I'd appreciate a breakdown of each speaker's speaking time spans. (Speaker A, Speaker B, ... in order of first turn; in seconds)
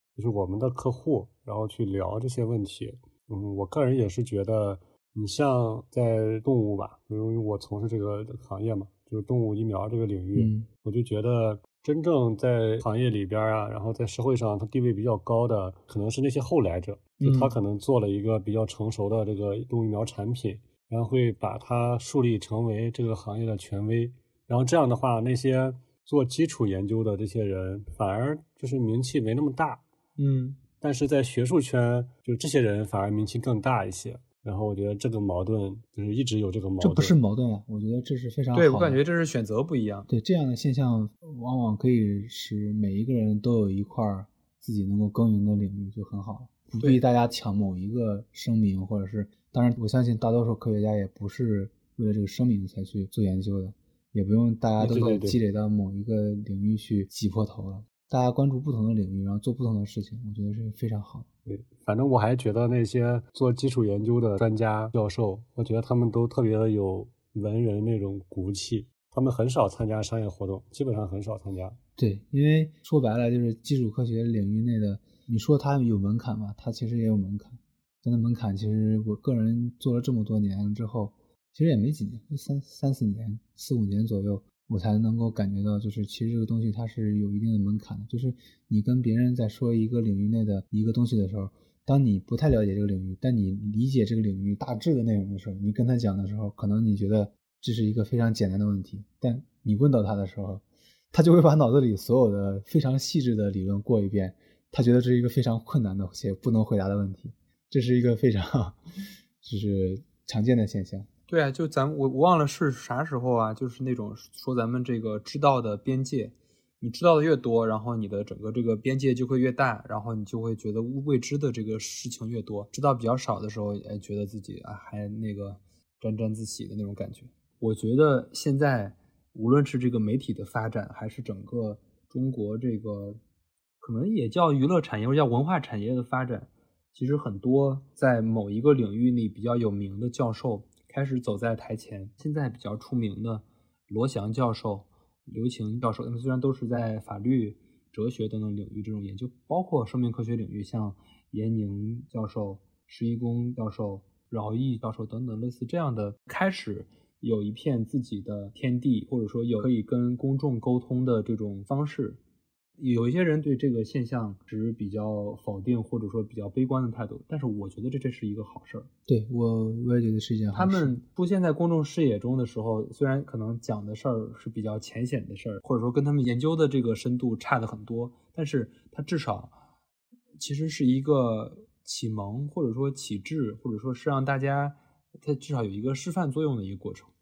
Speaker A: 0.1-29.8, 30.8-37.1, 54.8-55.4, 61.5-71.8
Speaker B: 10.3-10.7, 36.8-39.0, 40.1-61.3, 72.0-111.1, 169.1-170.9
Speaker C: 30.2-30.6, 38.5-40.1, 111.3-133.2, 133.8-162.2, 162.8-168.9, 170.5-179.5, 180.4-187.1